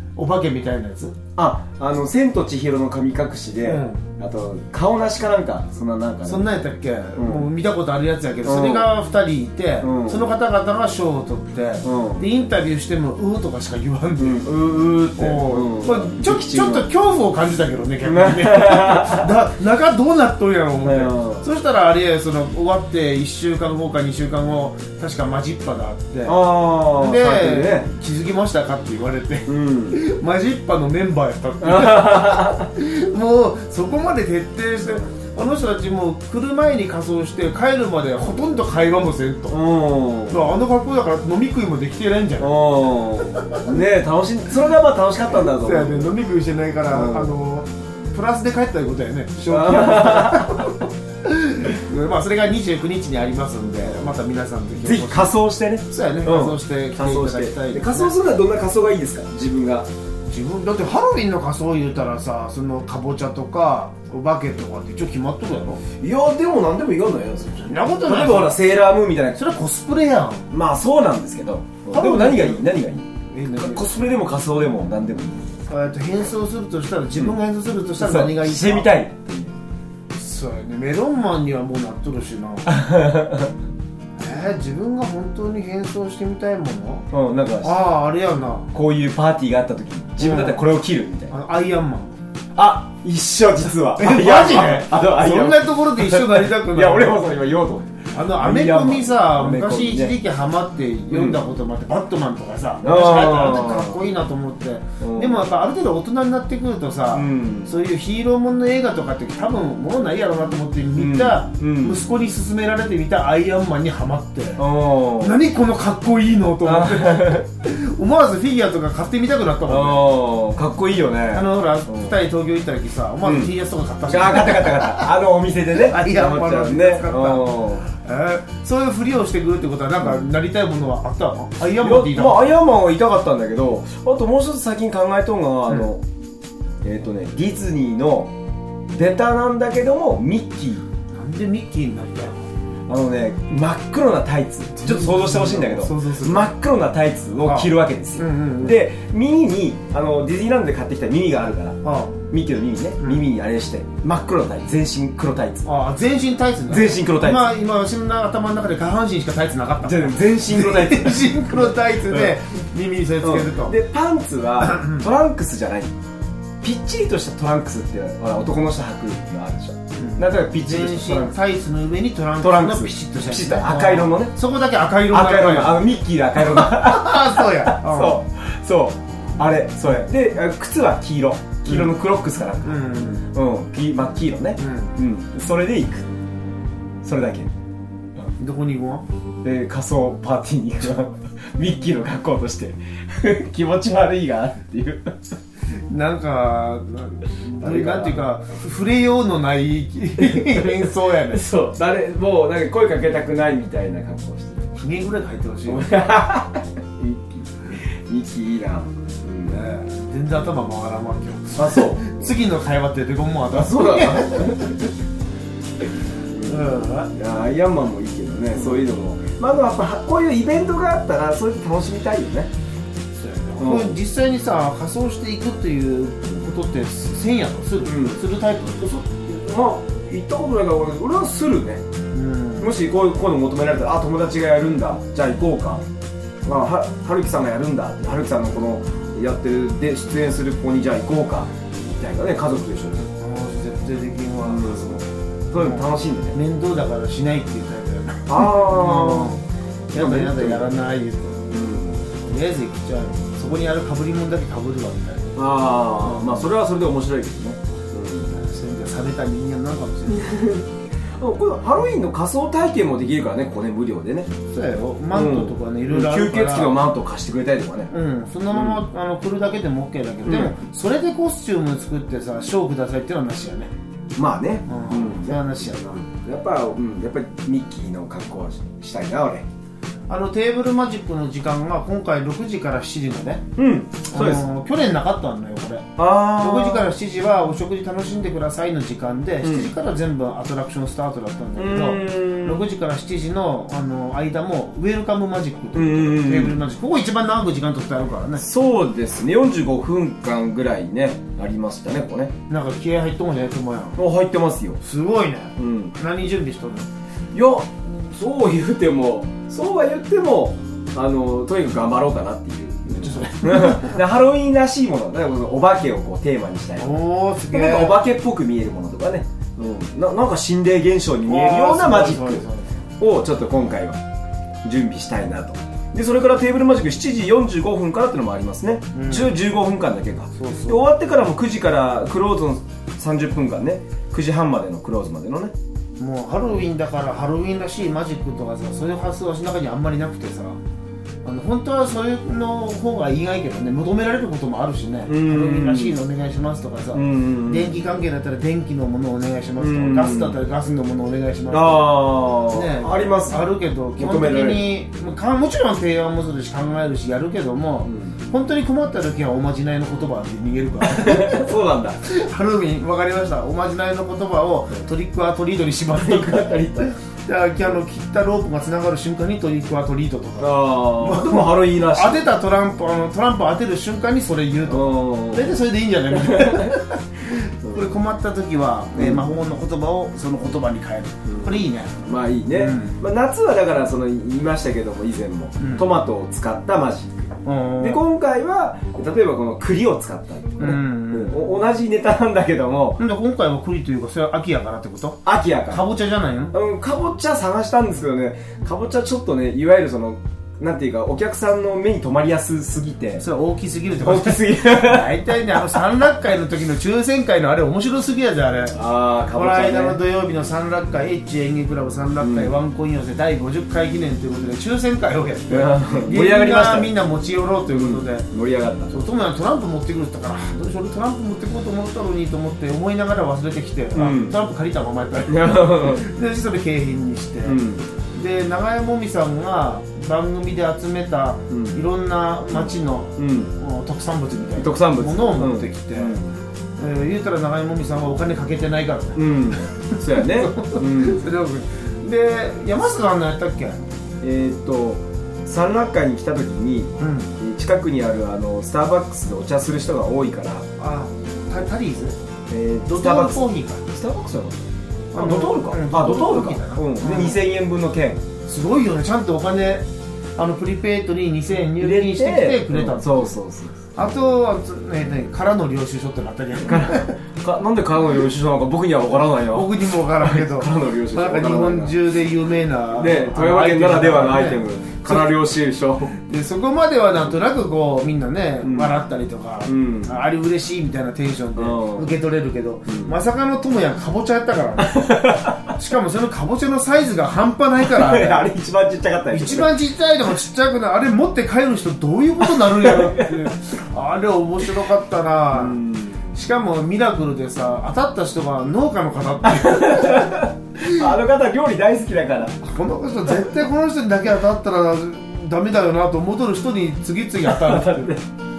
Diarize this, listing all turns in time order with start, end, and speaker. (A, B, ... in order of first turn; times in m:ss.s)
0:00.2-0:01.2 A
0:01.4-0:06.5 B
0:03.6-0:04.0 A
0:06.2-0:14.6 A
0:07.1-0:07.5 B
0:08.4-0:08.9 B
0:09.8-0:10.3 B
0:11.8-0:12.2 B
0:14.2-0:16.9 B
0:15.1-0:39.6 A
0:18.0-0:19.3 B
0:20.8-0:21.4 B
0:26.2-0:27.9 B
0:29.4-0:30.0 B
0:31.6-0:32.7 B
0:39.5-0:40.5 B
0:40.3-0:42.5 A
0:42.4-0:46.1 B
0:43.4-0:43.6 A
0:45.3-0:58.2 A
0:46.9-0:47.4 B
0:49.5-0:50.6 B
0:53.8-0:54.1 B
0:54.8-0:59.9 B
1:00.3-1:05.8 A
1:06.0-1:09.4 B
1:07.6-1:08.6 A
1:09.3-1:10.5 A
1:10.5-1:15.5 B
1:11.9-1:13.9 A
1:15.6-1:19.0 A
1:18.0-1:19.6 B
1:20.1-1:22.8 A
1:22.7-1:23.5 B
1:24.2-1:27.1 A
1:27.1-1:27.8 B
1:27.6-1:28.7 A
1:28.7-1:31.3 B
1:30.2-1:30.6 A
1:31.3-1:32.2 A
1:32.5-1:40.2 B
1:34.0-1:37.2 A
1:38.1-1:54.7 A
1:41.1-1:41.4 B
1:42.8-1:44.0 B
1:45.0-1:45.4 B
1:47.1-1:47.7 B
1:50.9-1:52.0 B
1:54.6-1:55.4 B
1:55.2-2:00.1 A
1:56.6-1:57.4 B
1:59.6-2:02.1 B
2:01.3-2:05.1 A
2:03.2-2:03.5 B
2:04.1-2:07.9 B
2:05.8-2:12.6 A
2:11.7-2:16.0 B
2:16.8-2:18.3 B
2:18.9-2:20.8 B
2:21.1-2:22.3 A
2:22.9-2:31.8 B
2:24.8-2:26.5 A
2:27.4-2:28.8 A
2:31.8-2:32.2 A
2:32.3-2:35.7 B
2:35.6-2:43.8 A
2:36.7-2:37.5 B
2:39.8-2:42.3 B
2:43.2-2:45.9 B
2:44.6-2:45.1 A
2:46.6-2:51.4 B
2:50.0-2:55.8 A
2:52.4-2:54.3 B
2:55.1-3:06.0 B
2:56.4-2:58.2 A
3:01.6-3:01.9 A
3:02.6-3:03.2 A
3:04.6-3:04.9 A
3:07.0-3:07.5 B
3:08.4-3:09.0 A
3:09.4-3:15.1 B
3:15.9-3:21.4 A
3:17.6-3:18.2 B
3:20.2-3:24.7 B
3:24.7-3:26.1 A
3:25.6-3:29.7 B
3:29.5-3:34.9 A
3:31.6-3:32.3 B
3:33.5-3:34.6 B
3:36.3-3:42.5 B
3:36.4-3:37.1 A
3:38.6-3:38.8 A
3:43.2-3:49.1 A
3:43.6-3:44.0 B
3:47.8-3:48.2 B
3:48.8-3:51.8 B
3:52.1-3:52.7 A
3:52.6-3:55.8 B
3:56.4-4:03.0 B
4:03.1-4:11.5 A
4:04.4-4:05.0 B
4:05.5-4:06.4 B
4:08.3-4:10.7 B
4:11.5-4:12.0 B
4:12.2-4:16.5 A
4:15.3-4:18.3 B
4:18.3-4:20.5 A
4:20.1-4:20.6 B
4:21.2-4:24.3 B
4:24.5-4:26.8 A
4:25.1-4:27.9 B
4:27.9-4:33.7 A
4:28.5-4:28.8 B
4:30.2-4:30.6 B
4:34.1-4:39.4 B
4:34.7-4:35.9 A
4:40.1-4:43.4 A
4:43.6-4:44.5 B
4:44.1-4:58.4 A
4:46.0-4:46.9 B
4:49.4-4:49.7 B
4:51.6-4:52.6 B
4:55.7-4:56.6 B
4:58.4-5:02.3 B
5:02.5-5:04.0 A
5:04.0-5:04.8 B
5:04.8-5:06.9 A
5:05.6-5:05.9 B
5:07.3-5:17.0 B
5:12.8-5:14.0 A
5:16.8-5:18.0 A
5:17.5-5:22.4 B
5:21.2-5:22.8 A
5:23.0-5:24.0 B
5:24.6-5:35.5 B
5:28.9-5:29.4 A
5:30.3-5:30.8 A
5:36.0-5:40.6 A
5:41.2-6:01.5 A
5:45.1-5:46.0 B
5:46.9-5:47.8 B
5:49.6-5:50.4 B
5:51.5-5:54.7 B
5:57.8-5:58.2 B
6:00.8-6:02.0 B
6:02.0-6:22.0 A
6:05.9-6:06.9 B
6:10.4-6:12.3 B
6:14.7-6:16.8 B
6:17.6-6:17.9 B
6:18.9-6:19.3 B
6:21.2-6:27.3 B
6:22.5-6:23.0 A
6:25.6-6:25.9 A
6:27.4-6:28.0 A
6:27.8-6:33.0 B
6:30.6-6:31.6 A
6:33.0-6:36.5 A
6:35.2-6:35.8 B
6:36.5-6:43.2 B
6:43.2-6:48.8 A
6:44.0-6:45.8 B
6:48.7-6:50.0 B
6:49.3-6:58.3 A
6:52.2-6:52.5 B
6:55.5-6:56.9 B
6:57.7-6:59.0 B
6:58.9-7:07.6 A
7:03.9-7:04.4 B
7:05.2-7:06.0 B
7:07.4-7:07.9 B
7:08.1-7:16.2 A
7:11.5-7:11.8 B
7:12.5-7:13.5 B
7:14.6-7:16.4 B
7:16.8-7:23.9 A
7:19.2-7:21.2 B
7:24.2-7:30.6 B
7:27.0-7:27.3 A
7:30.8-7:32.2 A
7:32.5-7:38.2 B
7:32.8-7:33.8 A
7:35.1-7:37.4 A
7:38.4-7:39.8 A
7:40.4-7:43.3 A
7:41.6-7:43.9 B
7:43.9-7:47.2 A
7:46.6-7:52.0 B
7:49.4-7:55.3 A
7:53.0-7:56.1 B
7:56.1-8:08.5 A
7:58.6-7:59.0 B
7:59.6-8:00.2 B
8:01.6-8:02.1 B
8:02.9-8:03.2 B
8:04.8-8:05.6 B
8:07.8-8:09.7 B
8:09.3-8:15.8 A
8:12.4-8:13.5 B
8:15.5-8:16.3 B
8:16.3-8:20.5 A
8:19.4-8:22.6 B
8:22.6-8:28.2 A
8:27.4-8:28.2 B